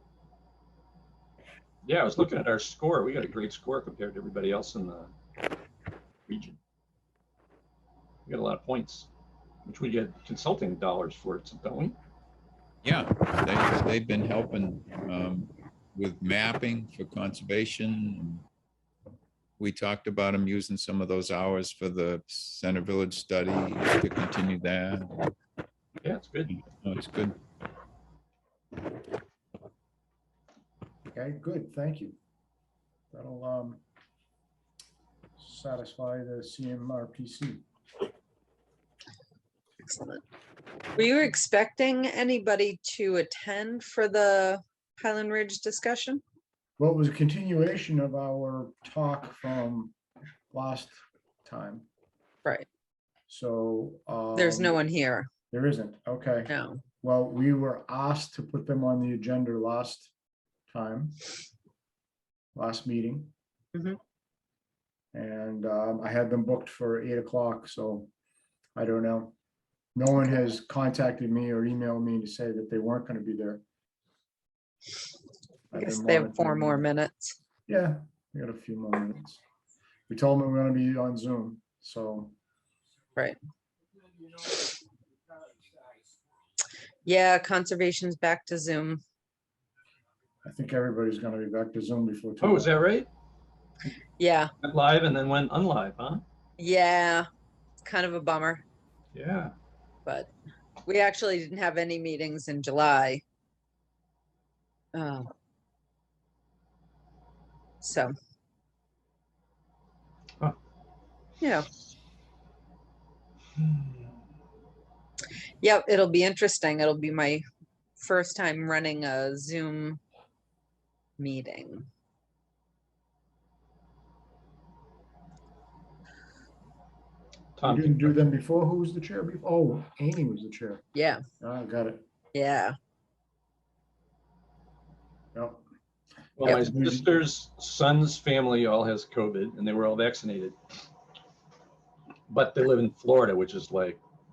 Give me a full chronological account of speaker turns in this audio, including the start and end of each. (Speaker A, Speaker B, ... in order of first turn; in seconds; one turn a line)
Speaker A: 1.8-5.1
Speaker A: 6.3-6.6
Speaker A: 8.3-9.1
Speaker A: 9.7-12.0
Speaker B: 12.8-18.4
Speaker B: 19.6-25.1
Speaker A: 26.0-26.5
Speaker B: 26.5-27.4
Speaker C: 31.1-32.2
Speaker C: 33.1-33.8
Speaker C: 35.4-37.6
Speaker D: 39.8-40.2
Speaker D: 41.0-46.2
Speaker C: 46.8-50.0
Speaker C: 50.5-51.9
Speaker C: 53.3-54.8
Speaker D: 54.4-55.3
Speaker C: 55.5-60.1
Speaker D: 56.5-56.8
Speaker C: 60.7-61.2
Speaker C: 62.5-63.3
Speaker D: 63.7-64.0
Speaker C: 65.1-68.1
Speaker C: 68.8-69.3
Speaker C: 70.0-73.6
Speaker C: 75.7-76.9
Speaker D: 75.7-77.3
Speaker C: 77.7-79.4
Speaker C: 80.1-82.3
Speaker D: 87.0-89.0
Speaker C: 90.5-92.8
Speaker A: 92.4-93.1
Speaker D: 94.2-94.5
Speaker A: 94.6-96.2
Speaker D: 96.6-97.3
Speaker D: 97.8-98.6
Speaker A: 99.1-99.5
Speaker D: 100.8-103.2
Speaker D: 104.9-105.3
Speaker D: 107.8-108.1
Speaker D: 111.4-111.7
Speaker D: 115.6-117.4
Speaker D: 118.0-120.0
Speaker D: 121.2-121.9
Speaker A: 127.6-128.2
Speaker C: 127.6-130.8
Speaker D: 130.9-131.2
Speaker C: 131.4-132.0
Speaker D: 132.3-132.8
Speaker C: 135.3-135.7
Speaker A: 136.4-140.6
Speaker C: 136.4-137.2
Speaker A: 142.3-144.0